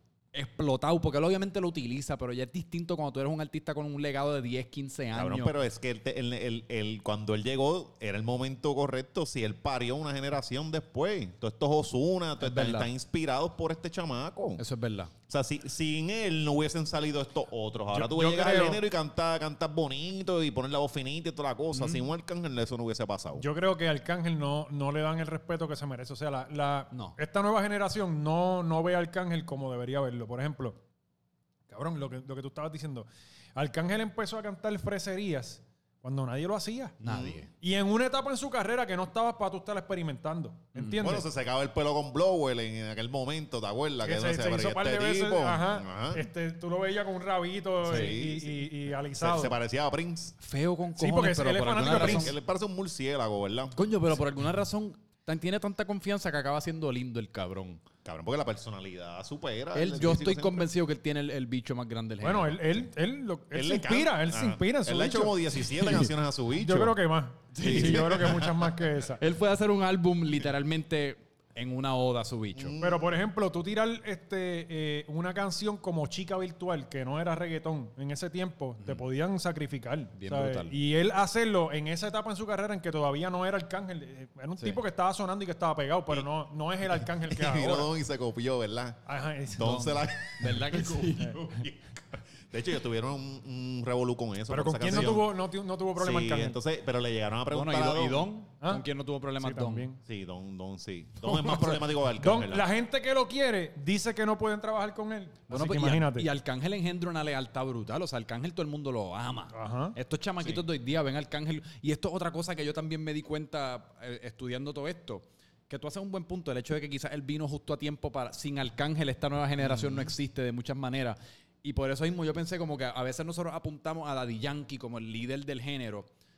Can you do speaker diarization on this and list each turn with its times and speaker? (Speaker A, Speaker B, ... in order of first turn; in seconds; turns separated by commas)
Speaker A: 0.3-5.5, Speaker B: 5.1-14.6, Speaker A: 12.4-12.9, Speaker A: 14.6-15.1, Speaker B: 15.3-23.4, Speaker C: 17.9-18.8, Speaker C: 23.4-30.8, Speaker C: 31.7-37.0, Speaker A: 37.0-37.5, Speaker B: 37.0-37.4, Speaker C: 37.5-41.2, Speaker A: 40.7-41.0, Speaker B: 41.0-46.2, Speaker C: 44.0-49.5, Speaker A: 47.8-48.1, Speaker B: 47.8-48.6, Speaker B: 49.2-50.4, Speaker A: 50.4-52.3, Speaker C: 51.0-52.3, Speaker B: 51.8-53.7, Speaker A: 53.7-57.8, Speaker B: 58.0-60.7, Speaker A: 59.7-62.8, Speaker C: 62.2-65.4, Speaker B: 63.5-67.0, Speaker A: 65.7-66.1, Speaker C: 66.5-69.2, Speaker A: 67.5-68.2, Speaker B: 67.6-68.9, Speaker A: 69.2-72.7, Speaker B: 72.5-73.2, Speaker C: 72.8-87.9, Speaker A: 80.2-80.8, Speaker B: 87.0-89.0, Speaker C: 89.0-90.0, Speaker B: 89.5-95.3, Speaker A: 90.4-91.5, Speaker C: 94.5-96.6, Speaker B: 96.0-98.3, Speaker A: 97.5-99.9, Speaker C: 99.4-100.0, Speaker B: 100.0-102.7, Speaker C: 101.2-106.3, Speaker A: 105.5-126.1, Speaker C: 109.5-110.0, Speaker B: 119.6-120.1